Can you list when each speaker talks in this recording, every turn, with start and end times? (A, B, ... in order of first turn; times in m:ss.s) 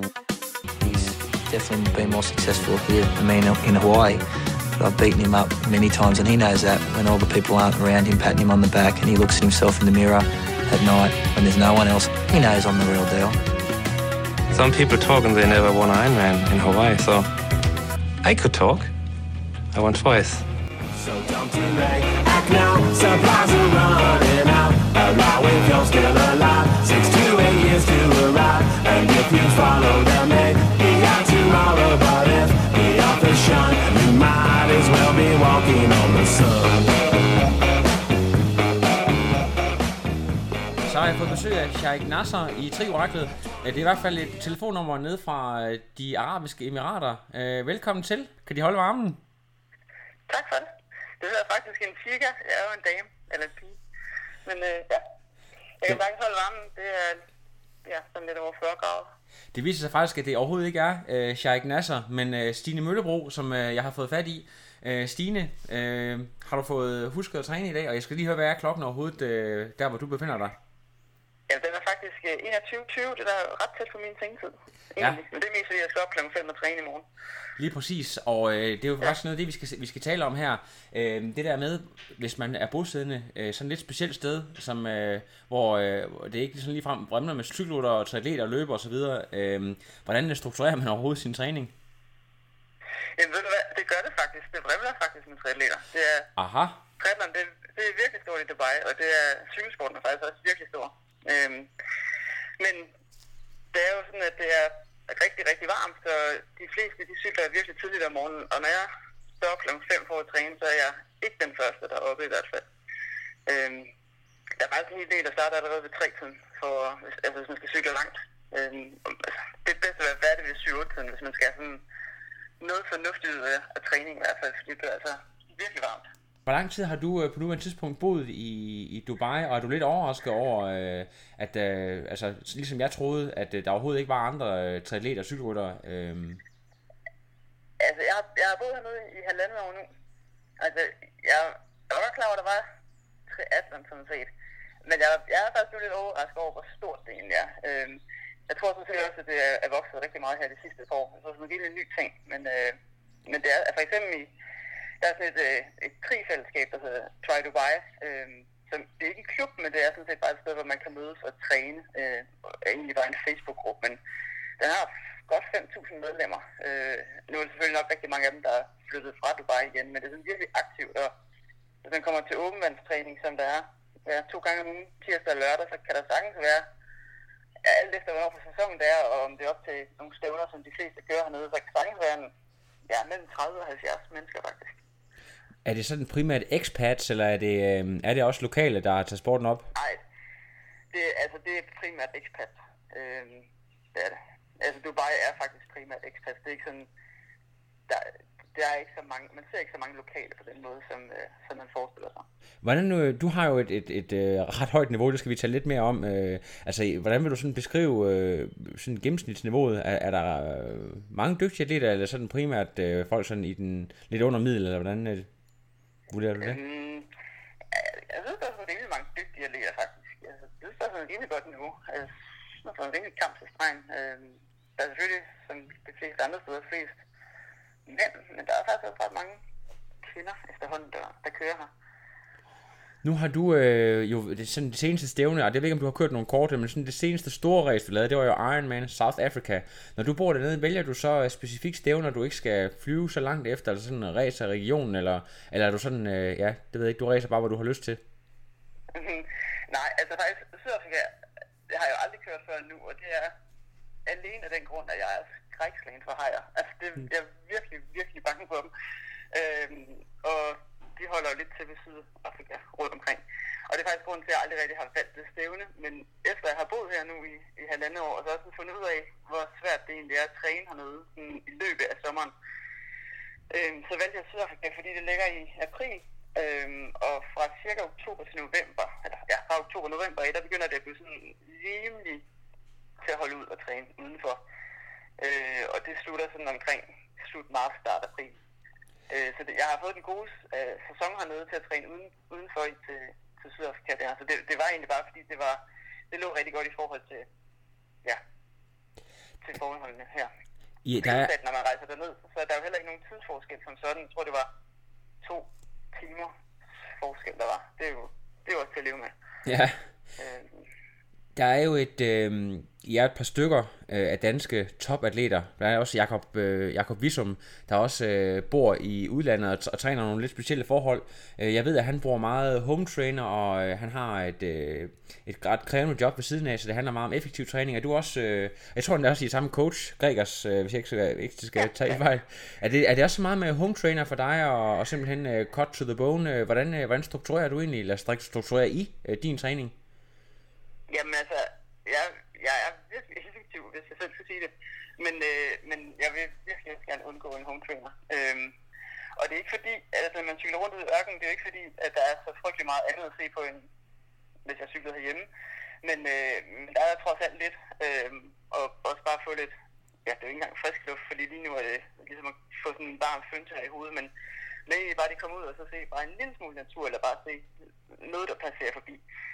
0:00.8-0:04.2 A
0:04.7-0:13.4 A
0:14.5-0:17.3 B
0:18.2-0:18.9 B
0:19.7-0:20.5 B
0:21.0-0:37.0 C
0:40.8-0:49.2 D
0:50.3-0:53.8 E
0:54.4-0:55.0 E
0:55.8-0:57.2 E
0:57.8-0:59.1 E
0:59.5-1:10.6 D
1:11.5-1:17.0 E
1:17.6-1:31.7 D
1:33.2-1:36.3 E
1:36.4-1:36.8 D
1:37.0-1:41.7 E
1:42.6-1:42.9 E
1:43.7-1:52.6 E
1:53.4-1:53.9 E
1:54.6-2:01.8 E
2:02.6-2:06.0 E
2:06.5-2:16.4 D
2:17.8-2:19.9 E
2:20.6-2:22.6 E
2:23.3-2:24.3 E
2:24.8-2:34.3 E
2:35.0-2:44.0 E
2:44.6-2:51.1 E
2:51.8-2:56.6 E
2:57.6-3:02.3 E
3:02.9-3:04.8 E
3:05.6-3:09.7 D
3:09.7-3:10.0 E
3:10.9-3:16.9 E
3:17.9-3:22.2 E
3:22.6-3:35.3 D
3:36.1-3:36.6 D
3:36.4-3:37.1 E
3:37.7-3:47.0 E
3:47.8-3:49.4 E
3:50.0-3:51.7 E
3:53.0-4:08.0 D
4:08.9-4:13.3 E
4:14.0-4:18.7 E
4:19.3-4:32.3 E
4:33.5-4:42.2 E
4:43.0-4:44.4 E
4:45.2-4:48.4 E
4:49.1-4:57.3 E
4:59.4-5:00.3 E
5:00.8-5:01.3 D
5:01.0-5:04.5 E
5:05.2-5:06.3 E
5:06.9-5:09.1 E
5:09.4-5:09.8 D
5:10.2-5:10.6 E
5:11.3-5:39.7 D
5:40.9-5:48.5 E
5:49.2-5:53.7 E
5:54.4-5:55.3 E
5:55.8-5:59.5 E
6:00.0-6:04.1 E
6:04.6-6:09.0 E